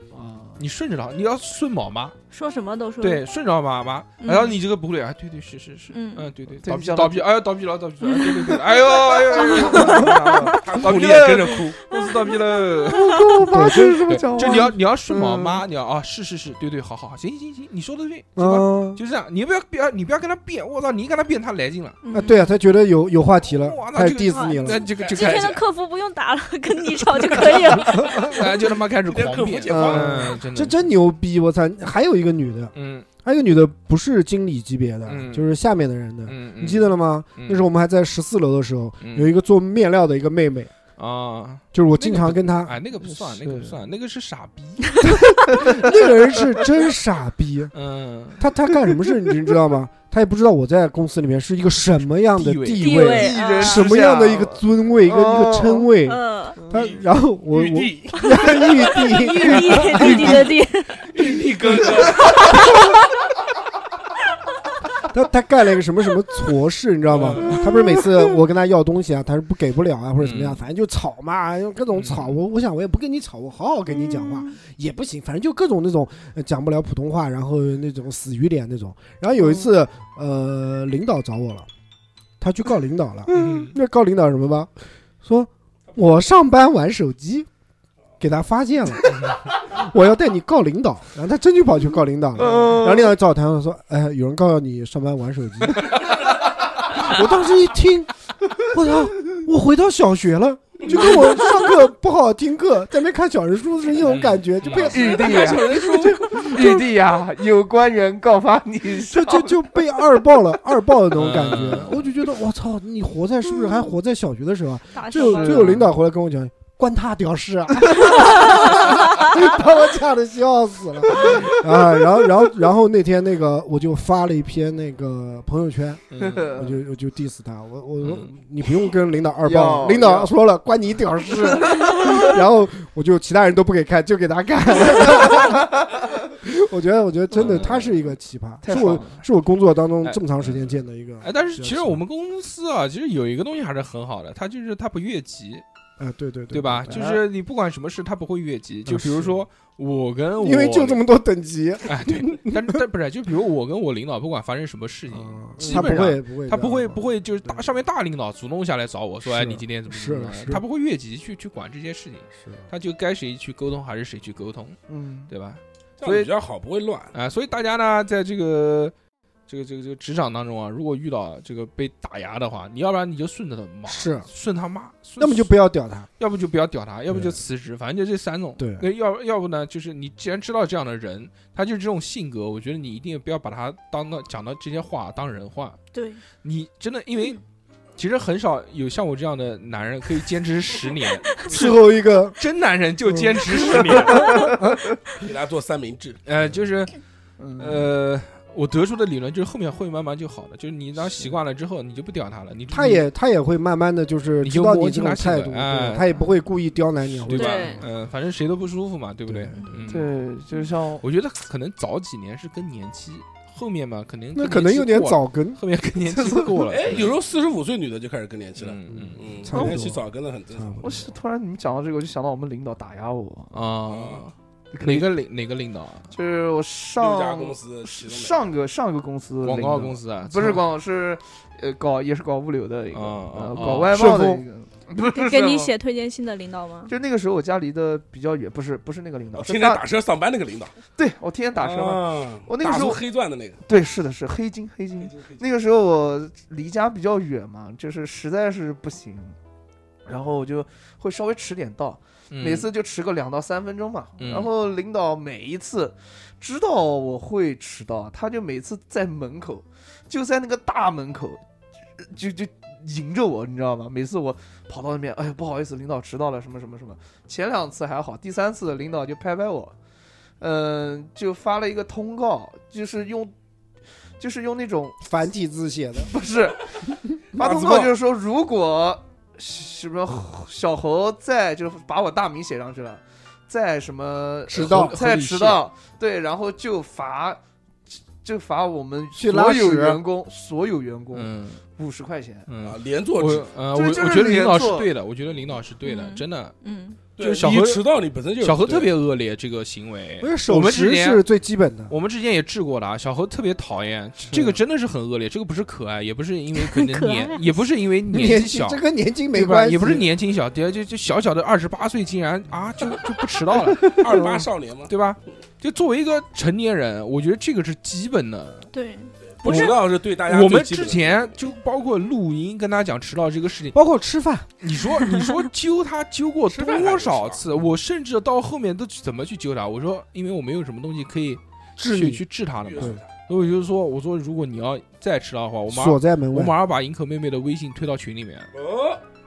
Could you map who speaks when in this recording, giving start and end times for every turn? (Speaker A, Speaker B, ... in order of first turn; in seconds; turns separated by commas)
Speaker A: 0.1-0.6, Speaker B: 0.6-2.1, Speaker C: 2.3-3.2, Speaker B: 3.0-22.0, Speaker C: 4.2-4.6, Speaker C: 5.9-6.3, Speaker A: 6.6-7.3, Speaker C: 8.2-8.6, Speaker C: 9.3-9.9, Speaker A: 9.7-10.6, Speaker D: 9.7-11.8, Speaker C: 11.9-13.0, Speaker A: 12.9-15.6, Speaker E: 13.4-14.0, Speaker E: 18.4-19.0, Speaker C: 22.0-22.5, Speaker E: 22.1-24.8, Speaker B: 23.5-25.6, Speaker C: 24.3-28.4, Speaker D: 25.0-25.5, Speaker D: 27.9-28.4, Speaker B: 28.1-30.9, Speaker D: 29.0-30.2, Speaker A: 29.7-30.2, Speaker E: 29.8-40.7, Speaker B: 32.7-33.1, Speaker B: 35.1-35.5, Speaker B: 36.3-37.6, Speaker B: 39.0-39.3, Speaker B: 41.0-44.9, Speaker E: 41.7-42.8, Speaker A: 43.0-43.8, Speaker E: 45.0-47.7, Speaker A: 45.5-45.9, Speaker B: 47.7-48.4, Speaker E: 48.4-60.5, Speaker B: 52.3-53.0, Speaker C: 52.8-53.9, Speaker A: 53.0-55.9, Speaker C: 56.0-56.6, Speaker A: 56.6-56.9, Speaker D: 56.7-58.9, Speaker C: 58.2-61.0, Speaker D: 59.7-60.4, Speaker D: 61.0-62.3, Speaker E: 65.1-81.7, Speaker D: 67.1-67.6, Speaker B: 70.2-70.6, Speaker B: 71.9-72.4, Speaker A: 74.0-74.5, Speaker A: 79.4-79.7, Speaker E: 82.4-87.5, Speaker B: 83.3-83.7, Speaker E: 88.2-105.3, Speaker A: 92.4-93.2, Speaker A: 100.9-101.7, Speaker B: 104.0-105.0, Speaker D: 104.7-106.5, Speaker A: 104.9-109.8, Speaker E: 106.0-106.9, Speaker E: 109.1-135.8, Speaker B: 111.1-112.0, Speaker A: 113.5-113.8, Speaker C: 114.9-115.7, Speaker A: 115.2-115.9, Speaker A: 121.1-121.5, Speaker B: 126.1-126.5, Speaker A: 126.2-126.8, Speaker B: 128.0-128.3, Speaker A: 129.4-130.3, Speaker A: 131.6-132.2, Speaker A: 135.3-135.9, Speaker E: 136.4-142.0, Speaker B: 137.3-138.0, Speaker A: 138.6-139.2, Speaker B: 140.0-145.6, Speaker E: 146.0-147.0, Speaker B: 146.5-151.0, Speaker A: 146.9-147.2, Speaker E: 148.8-149.4, Speaker E: 150.4-152.8, Speaker B: 151.8-164.8, Speaker E: 155.1-157.6, Speaker E: 159.2-160.6, Speaker A: 164.9-165.3, Speaker B: 165.3-166.3, Speaker D: 166.0-167.1, Speaker B: 167.1-168.9, Speaker B: 169.5-175.6, Speaker E: 173.8-174.3, Speaker E: 175.2-176.1, Speaker B: 176.2-185.8, Speaker E: 177.1-177.4, Speaker E: 178.6-178.8, Speaker C: 185.9-186.2, Speaker B: 186.4-187.4, Speaker B: 188.0-191.6, Speaker E: 191.4-192.4, Speaker B: 192.4-194.5, Speaker E: 193.1-193.4, Speaker A: 193.5-194.5, Speaker D: 195.2-196.2, Speaker B: 196.2-196.9, Speaker A: 197.4-197.9, Speaker B: 197.6-203.1, Speaker E: 202.7-207.9, Speaker B: 204.4-206.2, Speaker B: 207.3-210.1, Speaker C: 207.3-207.8, Speaker E: 209.3-209.8, Speaker A: 209.9-211.0, Speaker B: 211.0-217.1, Speaker E: 214.3-215.6, Speaker A: 216.2-216.5, Speaker D: 216.7-220.9, Speaker B: 218.6-219.2, Speaker E: 218.9-220.0, Speaker A: 219.5-219.8, Speaker E: 220.5-221.0, Speaker A: 220.8-223.6, Speaker B: 223.5-226.1, Speaker D: 223.8-224.2, Speaker A: 224.7-225.1, Speaker A: 226.1-235.7, Speaker D: 227.0-228.4, Speaker B: 229.4-230.6, Speaker B: 232.9-234.1, Speaker E: 233.7-234.4, Speaker C: 235.1-236.9, Speaker A: 236.9-239.8, Speaker D: 239.3-240.7, Speaker A: 240.9-243.0, Speaker D: 241.6-243.6, Speaker A: 243.7-249.3, Speaker D: 245.0-245.4, Speaker A: 250.1-261.4, Speaker B: 252.3-252.7, Speaker B: 254.2-254.5, Speaker A: 262.0-269.7, Speaker A: 270.4-273.3, Speaker A: 274.2-275.0, Speaker E: 275.0-276.1, Speaker A: 276.0-287.4, Speaker E: 277.3-277.9, Speaker E: 284.5-285.0, Speaker B: 284.5-285.6, Speaker A: 287.9-292.5, Speaker E: 289.1-290.0, Speaker B: 291.1-291.6, Speaker B: 292.5-296.5, Speaker D: 292.6-293.5, Speaker A: 293.7-294.9, Speaker C: 295.8-297.0, Speaker D: 297.2-298.9, Speaker B: 297.2-297.8, Speaker B: 298.4-301.2, Speaker E: 300.2-301.9, Speaker B: 301.9-308.8, Speaker E: 304.3-304.6, Speaker C: 306.6-307.6, Speaker E: 308.1-310.1, Speaker B: 309.3-314.0, Speaker D: 313.9-314.9, Speaker B: 314.9-318.7, Speaker C: 318.7-319.7, Speaker D: 319.4-321.4, Speaker B: 319.4-323.8, Speaker E: 323.7-324.5, Speaker B: 324.6-338.5, Speaker D: 326.5-327.4, Speaker E: 331.8-332.3, Speaker D: 332.6-333.1, Speaker E: 335.7-336.5, Speaker D: 338.5-339.0